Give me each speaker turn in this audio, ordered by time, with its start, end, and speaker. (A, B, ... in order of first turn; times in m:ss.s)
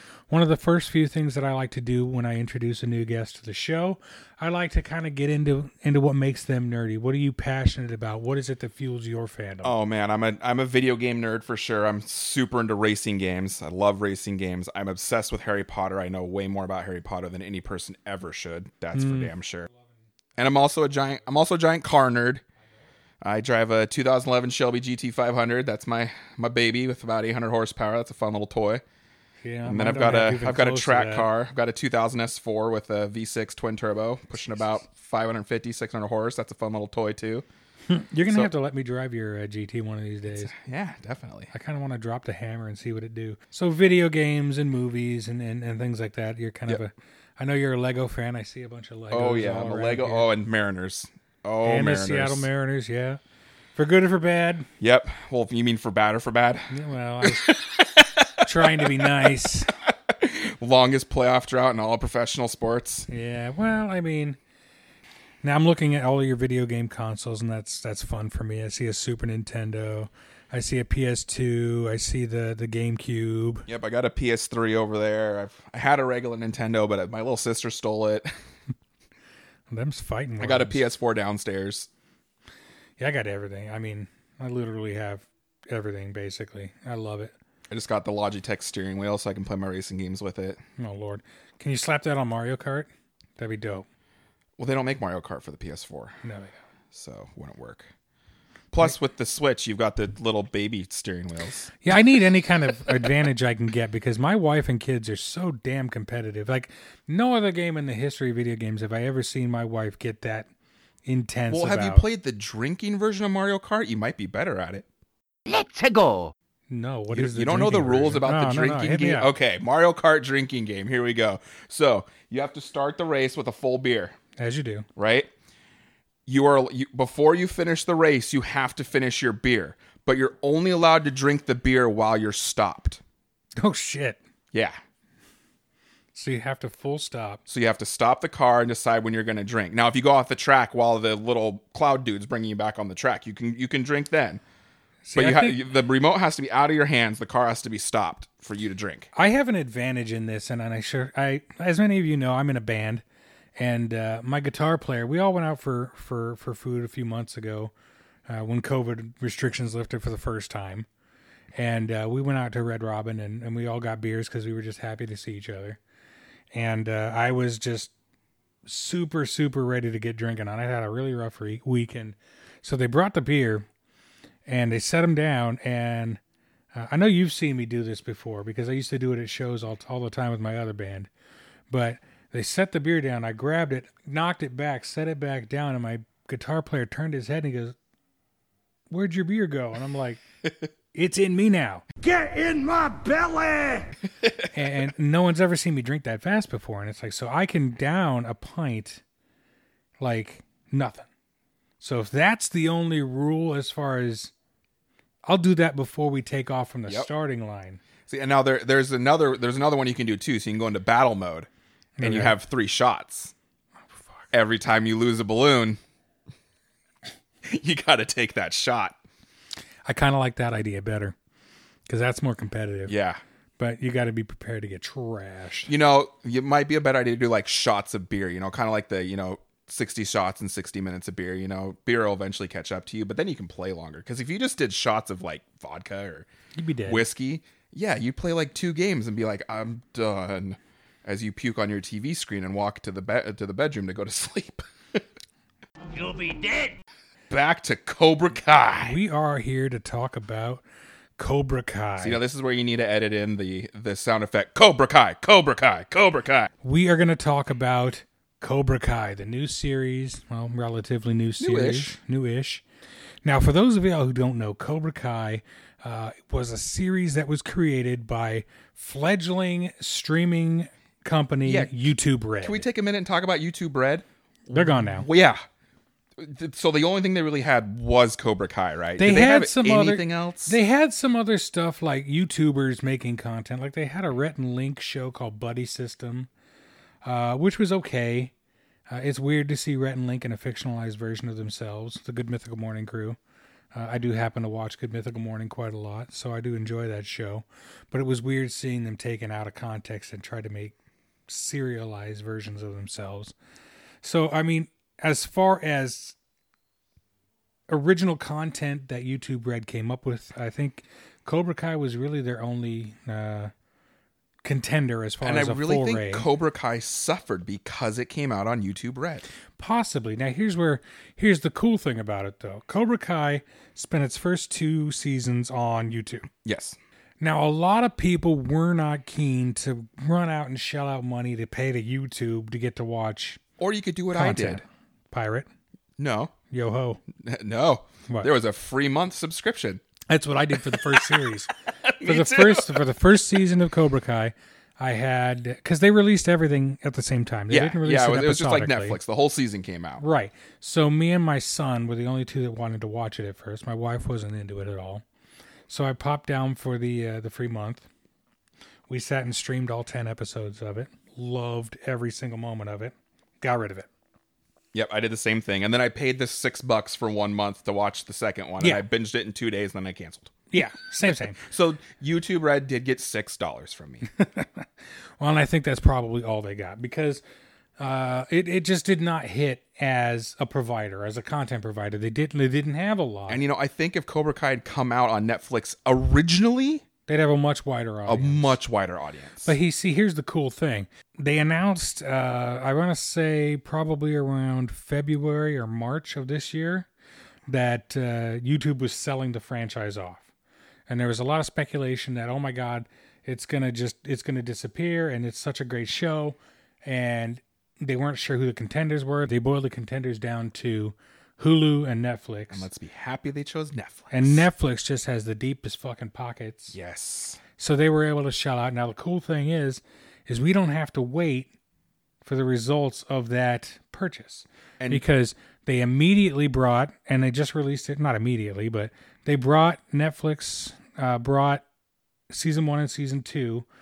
0:00.3-0:09.7 A
0:09.6-0:19.7 B
0:18.9-0:19.3 A
0:20.4-0:22.4 B
0:23.2-0:28.8 B
0:29.4-0:31.3 A
0:29.6-0:37.4 B
0:37.9-0:40.5 A
0:40.3-0:41.5 B
0:41.5-0:50.3 A
0:49.1-0:52.5 B
0:51.6-0:53.2 A
0:53.8-0:54.7 A
0:54.8-0:59.3 B
0:56.7-0:57.6 A
0:58.4-0:59.7 A
0:59.9-1:03.1 B
1:03.1-1:04.4 A
1:05.4-1:13.7 A
1:13.7-1:18.3 B
1:19.7-1:20.8 A
1:20.4-1:21.9 B
1:23.0-1:27.3 A
1:27.7-1:30.6 B
1:30.8-1:33.8 A
1:34.6-1:36.2 B
1:36.2-1:36.6 A
1:36.9-1:37.9 B
1:38.7-1:41.7 B
1:41.8-1:50.5 A
1:51.0-1:52.0 A
1:51.5-1:54.8 B
1:56.7-1:59.3 A
1:57.1-2:04.2 B
2:04.4-2:04.9 A
2:05.0-2:05.3 B
2:06.3-2:13.0 B
2:13.6-2:14.2 A
2:14.5-2:14.8 B
2:16.1-2:17.4 A
2:17.5-2:24.4 B
2:25.0-2:25.6 A
2:25.1-2:29.1 B
2:29.1-2:33.0 A
2:33.6-2:37.7 A
2:38.3-2:40.9 A
2:41.6-2:45.8 A
2:46.5-2:47.9 A
2:48.6-2:53.6 A
2:54.4-2:56.2 A
2:56.7-3:01.1 A
3:01.7-3:07.7 A
3:08.9-3:10.2 A
3:10.9-3:12.1 A
3:14.2-3:14.5 B
3:14.5-3:19.0 A
3:20.0-3:21.1 A
3:21.8-3:24.3 A
3:25.2-3:27.8 A
3:28.1-3:31.5 B
3:32.0-3:32.4 A
3:32.0-3:33.3 B
3:33.9-3:34.2 A
3:34.3-3:35.8 B
3:37.4-3:39.0 B
3:39.8-3:41.1 A
3:41.9-3:42.9 A
3:42.9-3:43.2 B
3:43.6-3:45.7 A
3:45.7-3:56.3 B
3:56.6-3:57.0 A
3:56.8-4:05.0 B
4:07.3-4:09.0 B
4:08.8-4:10.6 A
4:11.2-4:12.2 A
4:12.0-4:16.5 B
4:16.6-4:22.6 A
4:21.4-4:22.0 B
4:23.2-4:32.6 A
4:31.4-4:31.9 B
4:32.4-4:35.4 B
4:34.5-4:35.1 A
4:36.2-4:40.6 B
4:39.0-4:46.3 A
4:47.0-4:48.3 A
4:48.9-4:53.2 A
4:53.7-5:00.7 A
5:01.3-5:03.3 A
5:04.0-5:06.1 A
5:07.7-5:13.5 A
5:14.4-5:16.3 A
5:15.2-5:19.2 B
5:19.6-5:26.3 A
5:26.4-5:26.8 B
5:27.2-5:33.4 A
5:33.6-5:34.6 B
5:34.1-5:35.5 A
5:36.0-5:36.3 B
5:36.5-5:37.0 A
5:37.2-5:39.8 B
5:40.1-5:41.5 A
5:40.5-5:42.8 B
5:42.0-5:49.0 A
5:47.5-5:50.0 B
5:50.0-5:55.0 A
5:55.7-5:57.8 A
5:58.9-6:03.9 A
6:04.7-6:10.3 B
6:10.5-6:11.4 A
6:11.3-6:14.1 B
6:14.1-6:14.6 A
6:15.2-6:17.2 A
6:17.8-6:23.4 A
6:23.3-6:26.8 B
6:27.1-6:28.6 A
6:28.1-6:29.6 B
6:29.4-6:36.9 A
6:37.5-6:40.2 A
6:40.9-6:52.7 A
6:52.5-6:54.5 B
6:54.1-6:56.8 A
6:56.7-6:57.4 B
6:57.6-7:01.5 A
7:02.2-7:11.6 A
7:04.8-7:05.0 B
7:12.3-7:13.6 A